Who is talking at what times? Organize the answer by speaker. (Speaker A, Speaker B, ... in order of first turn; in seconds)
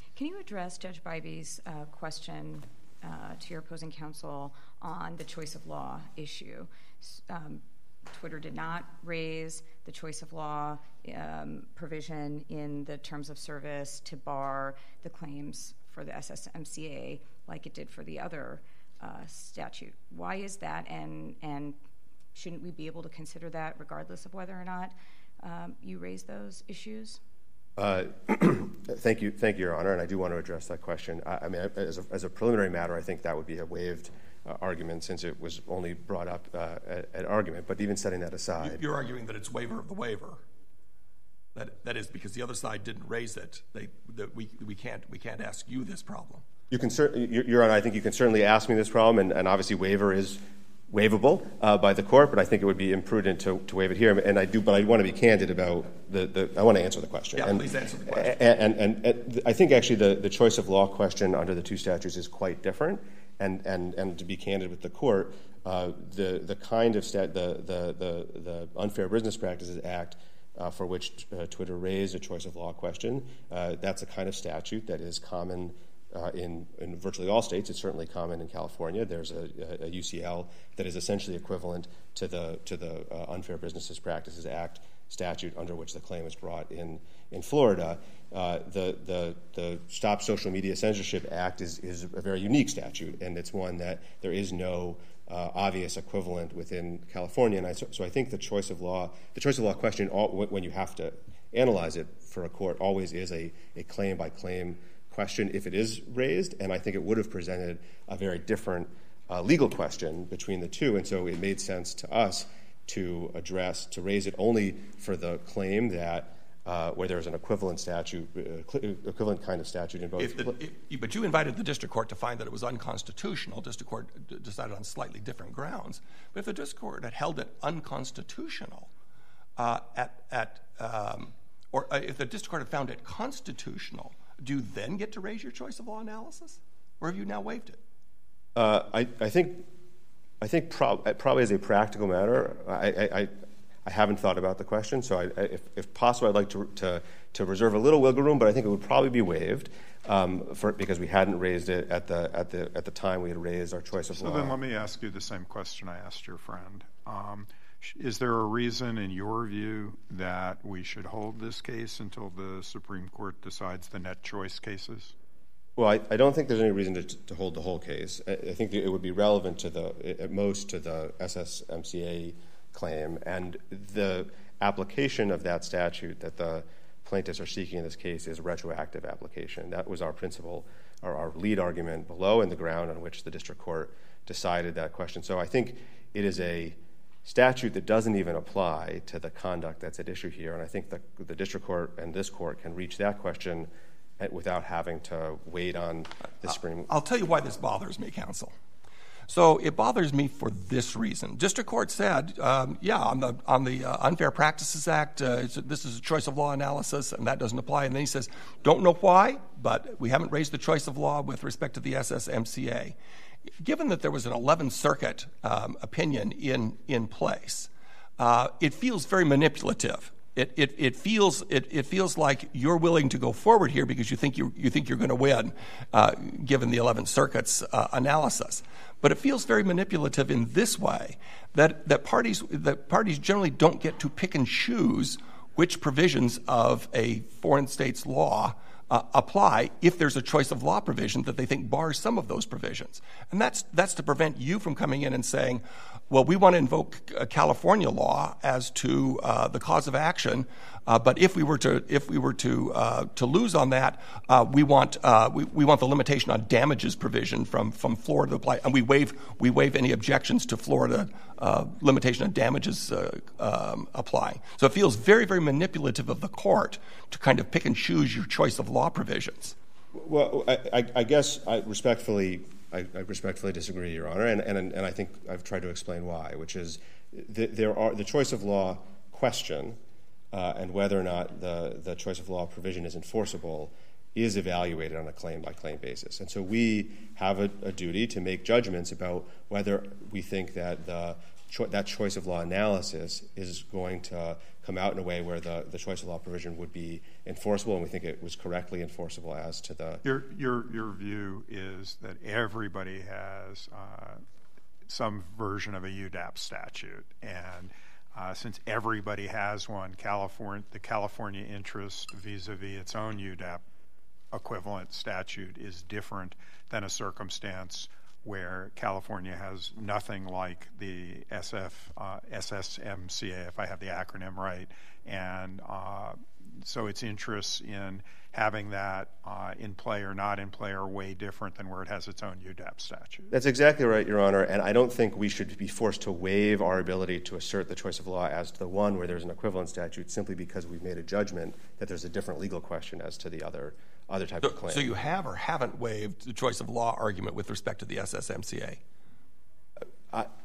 Speaker A: 0.1-21.8, 22.3-27.2
Speaker B: 27.8-38.8, 46.7-120.6, 138.6-139.7, 140.4-143.3, 143.8-154.6, 165.8-196.9, 269.9-279.8, 280.3-300.0, 333.3-344.9
Speaker C: 38.6-40.4, 41.5-46.4, 57.4-58.4, 120.2-128.9, 129.6-137.8, 196.9-198.5, 199.3-212.9, 213.6-269.6, 344.4-348.8
Speaker D: 154.2-165.2, 300.0-304.2, 304.9-313.6, 314.3-333.3